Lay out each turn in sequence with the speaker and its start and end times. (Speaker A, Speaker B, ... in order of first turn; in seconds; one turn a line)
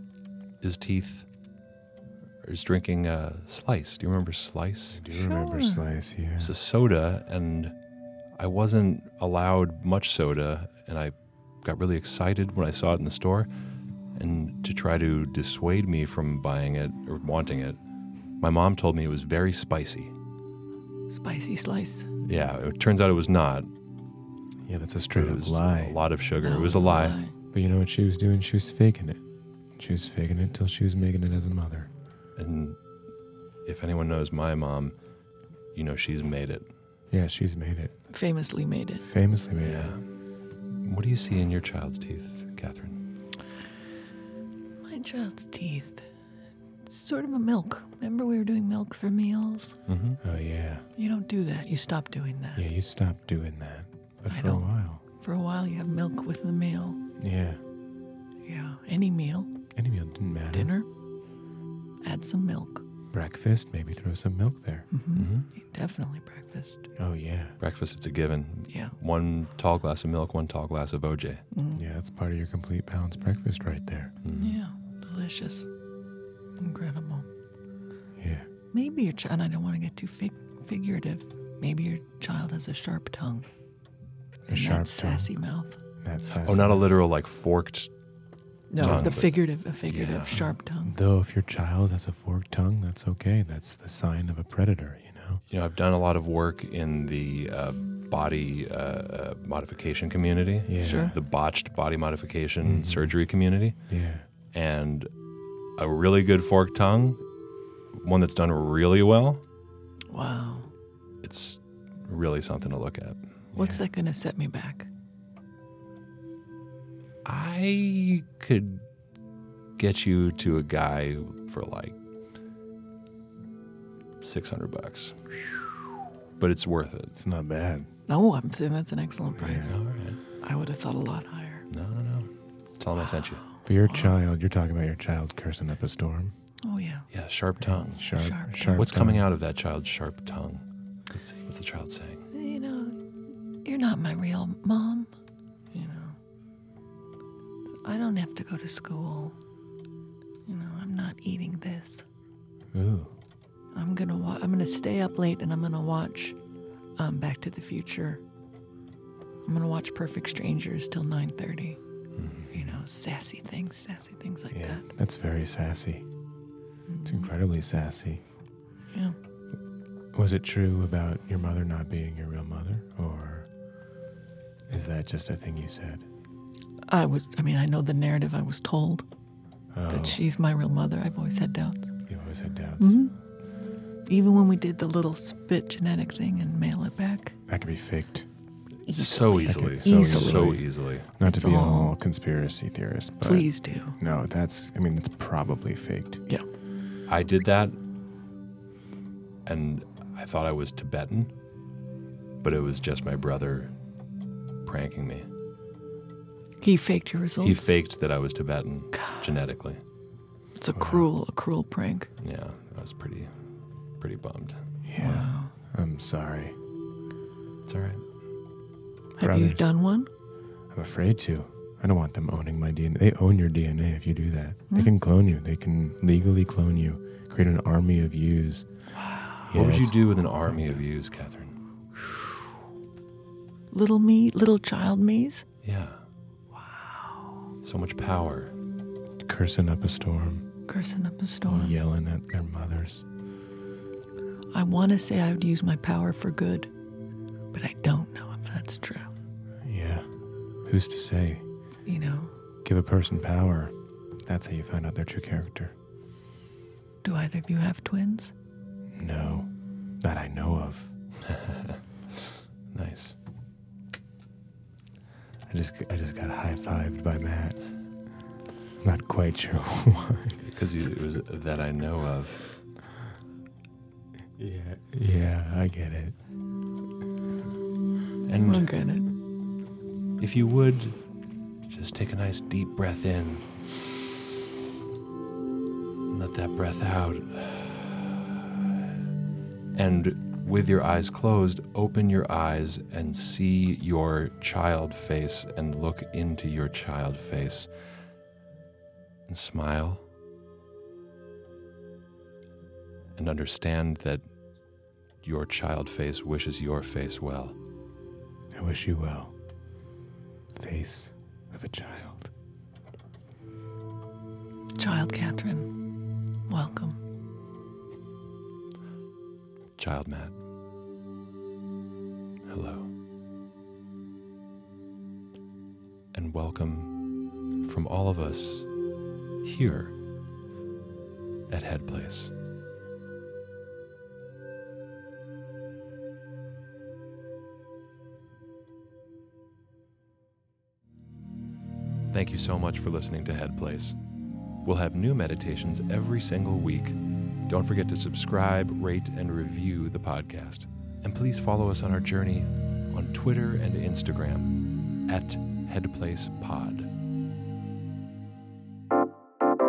Speaker A: 0.6-1.3
Speaker A: 2.4-5.0
Speaker B: 4.9-6.5
Speaker C: 5.1-5.9
Speaker A: 6.4-7.7
Speaker A: 8.4-13.5
Speaker A: 14.1-17.8
Speaker A: 18.4-20.1
Speaker C: 21.1-22.1
Speaker A: 22.2-23.7
Speaker B: 24.6-26.0
Speaker A: 25.1-27.2
Speaker C: 26.4-27.3
Speaker B: 27.5-29.2
Speaker B: 29.8-31.9
Speaker A: 32.4-32.8
Speaker A: 33.6-35.0
Speaker A: 35.7-36.7
Speaker B: 37.1-37.9
Speaker C: 38.1-39.0
Speaker B: 39.0-40.0
Speaker A: 39.6-40.0
Speaker A: 40.8-43.0
Speaker C: 44.8-46.0
Speaker C: 46.8-49.8
Speaker A: 49.9-50.2
Speaker B: 50.2-50.9
Speaker C: 51.0-52.6
Speaker B: 52.5-55.0
Speaker C: 54.3-57.0
Speaker B: 57.2-57.6
Speaker C: 58.5-59.5
Speaker B: 59.8-60.7
Speaker C: 60.5-60.9
Speaker C: 62.0-62.8
Speaker B: 63.1-64.9
Speaker C: 64.9-66.9
Speaker A: 65.1-65.5
Speaker B: 67.0-67.6
Speaker A: 67.6-71.4
Speaker C: 68.7-69.0
Speaker C: 71.5-71.8
Speaker B: 71.7-74.1
Speaker A: 74.2-74.6
Speaker C: 74.3-75.7
Speaker C: 76.6-77.3
Speaker B: 78.2-78.5
Speaker C: 78.7-83.5
Speaker C: 84.5-85.8
Speaker B: 84.5-85.3
Speaker B: 86.0-86.8
Speaker A: 86.3-87.9
Speaker C: 88.7-91.0
Speaker A: 88.8-90.5
Speaker B: 88.8-89.2
Speaker B: 90.3-95.4
Speaker A: 95.5-103.8
Speaker B: 100.6-101.2
Speaker C: 100.8-101.2
Speaker B: 102.6-103.1
Speaker B: 103.9-104.2
Speaker A: 104.5-105.1
Speaker A: 105.8-107.2
Speaker A: 108.0-109.4
Speaker C: 110.1-110.7
Speaker A: 111.2-113.2
Speaker B: 113.5-113.8
Speaker C: 113.5-114.9
Speaker A: 117.2-118.8
Speaker A: 119.8-122.0
Speaker A: 124.2-125.2
Speaker A: 126.4-127.2
Speaker B: 127.2-127.9
Speaker C: 128.1-129.8
Speaker B: 129.3-129.8
Speaker A: 129.6-130.2
Speaker C: 130.4-131.7
Speaker A: 131.7-133.4
Speaker C: 133.0-134.2
Speaker B: 133.6-136.3
Speaker C: 136.6-137.1
Speaker A: 137.1-138.1
Speaker B: 137.6-139.3
Speaker C: 138.1-138.8
Speaker A: 138.7-142.2
Speaker C: 142.3-143.0
Speaker C: 143.6-145.1
Speaker C: 145.7-146.2
Speaker C: 147.8-149.4
Speaker C: 150.5-152.0
Speaker B: 152.7-153.2
Speaker C: 153.7-156.4
Speaker C: 157.0-158.2
Speaker C: 159.4-161.8
Speaker A: 162.2-162.4
Speaker B: 162.4-162.8
Speaker C: 162.5-164.8
Speaker B: 164.5-166.1
Speaker C: 166.9-167.3
Speaker B: 167.0-168.2
Speaker B: 170.1-173.5
Speaker B: 174.7-176.1
Speaker C: 176.9-179.0
Speaker B: 179.7-180.2
Speaker C: 179.9-181.8
Speaker B: 182.1-183.0
Speaker C: 182.8-183.1
Speaker C: 184.1-187.3
Speaker B: 187.5-188.3
Speaker C: 188.9-190.6
Speaker A: 188.9-191.1
Speaker B: 189.4-196.2
Speaker C: 191.2-191.9
Speaker C: 193.2-194.0
Speaker A: 197.1-197.8
Speaker A: 199.4-201.3
Speaker A: 202.4-203.7
Speaker A: 204.6-205.3
Speaker C: 206.6-207.8
Speaker A: 207.4-209.8
Speaker C: 208.9-209.3
Speaker C: 210.6-212.1
Speaker B: 210.7-211.1
Speaker A: 212.2-213.3
Speaker A: 214.0-214.6
Speaker B: 214.8-216.6
Speaker C: 214.9-215.5
Speaker A: 217.7-218.0
Speaker B: 219.2-219.7
Speaker C: 219.2-220.1
Speaker B: 220.7-228.7
Speaker C: 229.0-229.4
Speaker B: 229.4-230.6
Speaker A: 229.5-231.6
Speaker C: 232.0-232.3
Speaker C: 233.7-235.4
Speaker A: 235.6-236.0
Speaker C: 236.6-237.4
Speaker A: 237.6-238.5
Speaker B: 239.2-240.5
Speaker C: 240.7-241.8
Speaker B: 241.4-243.0
Speaker C: 244.5-246.7
Speaker C: 247.5-249.1
Speaker B: 249.6-250.1
Speaker B: 250.6-251.4
Speaker C: 251.8-252.3
Speaker B: 252.6-253.7
Speaker B: 254.2-255.7
Speaker C: 257.0-258.3
Speaker B: 258.9-259.5
Speaker B: 260.0-260.9
Speaker A: 261.2-261.8
Speaker A: 262.7-263.2
Speaker B: 265.5-267.6
Speaker B: 268.8-270.4
Speaker A: 270.4-272.4
Speaker B: 274.4-276.2
Speaker A: 278.2-278.7
Speaker C: 278.4-279.1
Speaker A: 280.2-281.0
Speaker A: 281.7-283.5
Speaker A: 286.1-288.6
Speaker A: 289.7-297.7
Speaker A: 299.3-300.0
Speaker A: 303.2-304.2
Speaker A: 305.2-307.6
Speaker B: 308.5-309.3
Speaker B: 310.5-312.3
Speaker C: 314.8-315.7
Speaker C: 316.5-317.0
Speaker A: 319.8-320.4
Speaker A: 322.4-322.9
Speaker A: 326.1-326.9
Speaker A: 327.6-328.7
Speaker A: 329.4-329.9
Speaker A: 331.5-332.3
Speaker A: 342.1-344.0
Speaker A: 344.6-354.6
Speaker A: 355.1-356.9